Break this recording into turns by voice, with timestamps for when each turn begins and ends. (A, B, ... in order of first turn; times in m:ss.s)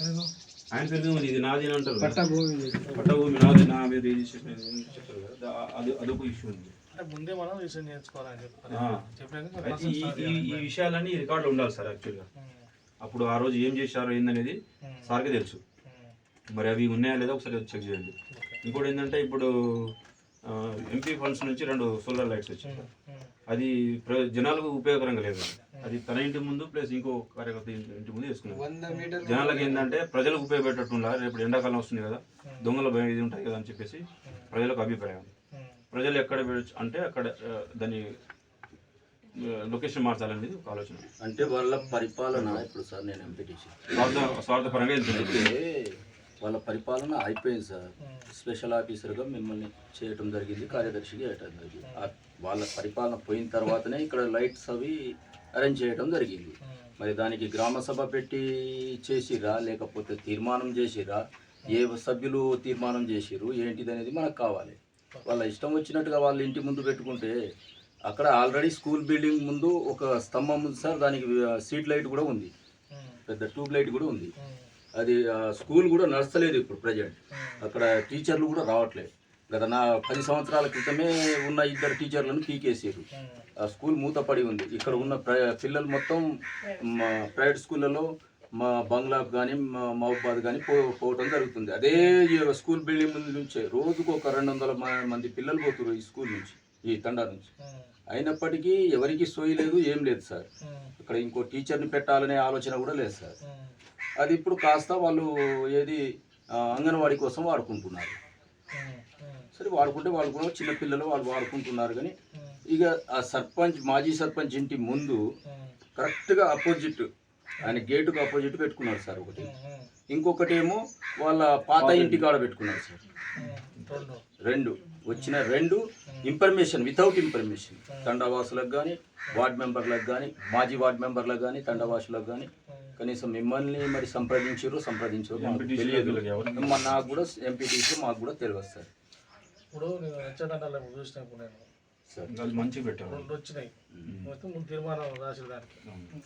0:00.7-0:02.3 A
0:02.0-0:03.2 B
0:02.9-0:06.7 A
0:06.9-0:10.7 C
0:08.7-0:09.0 A
0:09.6-0:12.2 A
0:12.4-0:12.6 C
0:13.0-0:15.6 A
0:14.8-0:15.2 C
0:15.8-0:16.1 C
0:16.5-0:19.9 A
0:18.3-0:18.6 C
0:20.5-0:22.9 A
0:22.6-0:23.3 C
0:23.5-0:35.3 A
0:25.7-0:26.0 C
0:28.5-0:29.9 B
0:28.8-0:29.2 C
0:32.4-0:32.8 C
0:35.5-0:35.8 C
0:35.9-0:38.2 A
0:39.3-0:41.0 A
0:41.2-0:44.0 D
0:41.4-0:42.0 C
0:42.3-0:42.6 A
0:43.9-0:45.5 A
0:45.0-1:07.4 D
0:48.0-0:48.3 C
0:56.6-0:56.9 C
1:08.1-1:12.5 D
1:12.9-1:13.2 C
1:13.3-1:14.3 D
1:14.4-1:14.7 C
1:15.0-1:23.0 D
1:17.3-1:17.6 C
1:23.1-1:23.4 C
1:23.6-1:37.5 D
1:24.8-1:25.2 C
1:31.9-1:32.2 C
1:37.6-1:37.9 C
1:38.1-1:40.5 D
1:40.6-1:40.9 C
1:41.0-1:43.3 D
1:43.4-1:43.7 C
1:44.2-1:46.0 D
1:46.6-1:48.2 D
1:48.7-1:49.5 C
1:49.5-1:52.1 D
1:52.7-1:55.2 D
1:55.5-1:55.7 C
1:56.0-1:57.1 D
1:57.6-1:57.9 C
1:57.6-1:59.5 D
1:59.4-1:59.9 C
2:00.1-2:03.0 D
2:01.8-2:02.3 A
2:03.3-2:04.2 C
2:03.4-2:04.0 A
2:04.4-2:18.9 D
2:05.1-2:05.4 C
2:06.1-2:06.3 C
2:07.9-2:08.1 C
2:11.7-2:12.0 C
2:15.3-2:17.1 A
2:19.7-2:21.7 C
2:22.2-2:23.3 A
2:23.1-2:23.7 C
2:24.0-2:24.3 A
2:24.3-2:25.8 C
2:25.8-2:26.1 A